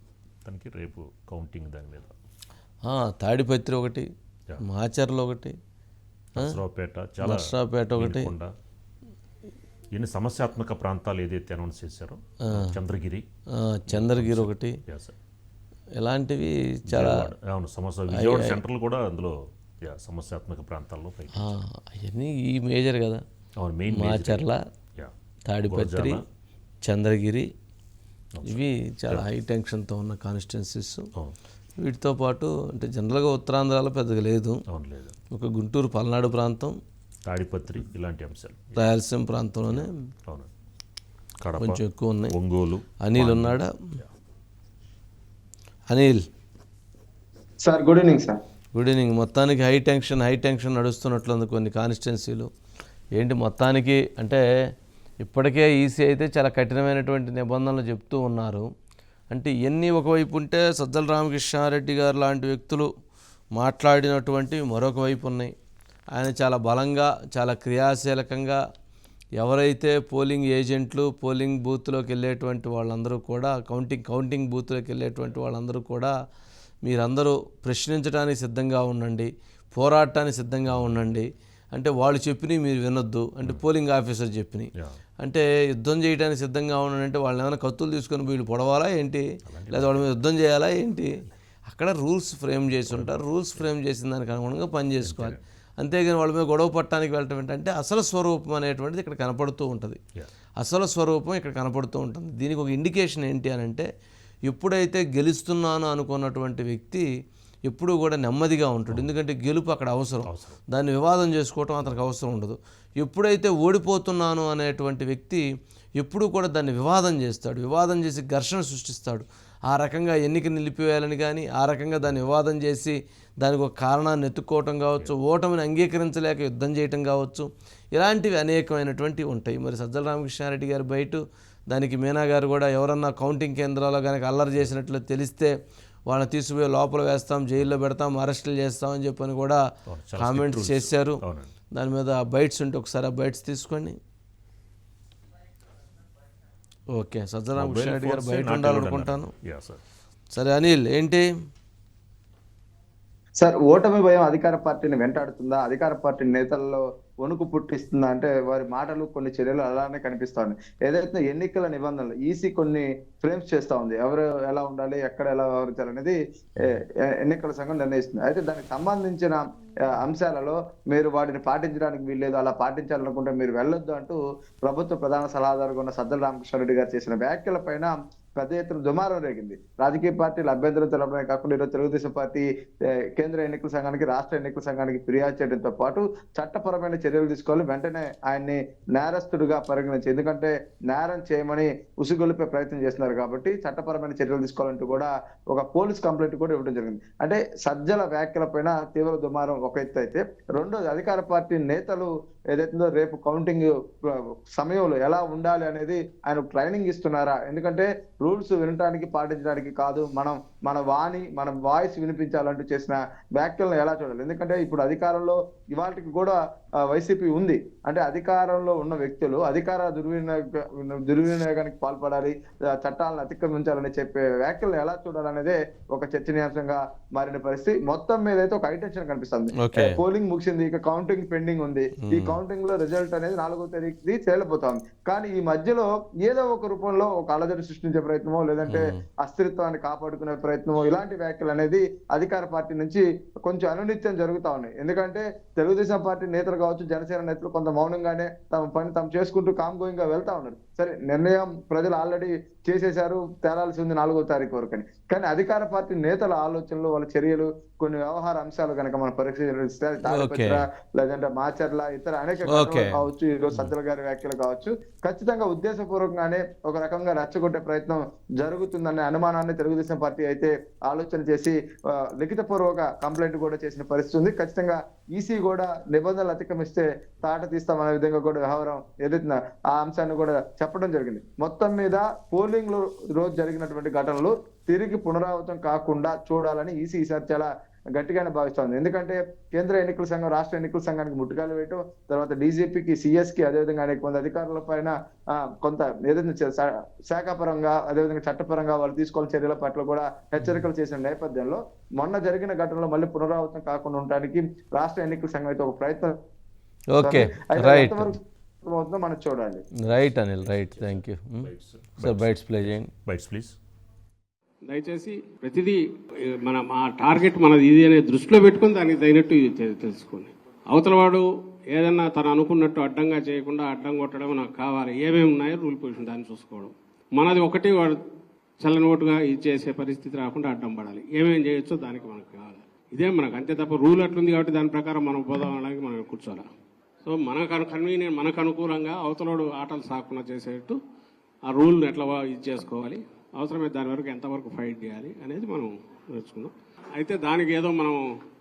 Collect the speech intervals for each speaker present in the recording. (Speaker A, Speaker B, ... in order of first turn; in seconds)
Speaker A: 0.4-2.1, 6.3-7.4, 8.0-8.5, 9.9-13.2, 13.9-15.1, 16.9-21.6, 23.6-25.1, 25.6-26.2, 28.3-29.2, 34.7-35.1, 37.2-38.9, 39.6-40.5, 41.4-43.6, 80.7-81.0, 89.5-90.0, 92.9-93.6, 95.0-95.4, 110.2-110.6, 139.9-141.5, 147.5-149.8, 309.9-313.5
Speaker B: 2.9-4.1, 4.7-5.5, 7.2-8.3, 12.5-12.7, 13.6-14.8, 16.0-17.3, 18.1-18.6, 21.4-23.2, 23.9-24.6, 25.5-26.2, 26.8-27.5, 28.4-31.0, 31.8-34.6, 35.3-36.7, 38.8-39.9, 41.6-42.3, 43.0-43.7, 45.9-46.2, 48.7-52.5, 53.1-54.4, 55.2-58.6, 59.3-62.9, 63.6-65.5, 66.1-68.6, 69.4-76.1, 76.8-84.7, 85.2-91.1, 91.7-100.0, 100.6-103.8, 104.5-107.0, 107.7-115.4, 116.0-135.5, 136.1-139.6, 140.2-141.2, 141.7-143.9, 146.9-149.3, 150.3-151.2, 229.6-230.0, 232.1-232.4, 238.7-239.0, 260.1-260.6, 262.5-263.0, 306.9-308.1, 309.8-311.5, 312.0-312.9
Speaker C: 47.6-48.4, 153.4-182.4, 183.2-271.5, 272.2-306.1, 307.0-309.6
Speaker D: 314.7-315.8, 316.4-328.0, 328.6-336.4, 337.0-340.8, 341.5-348.0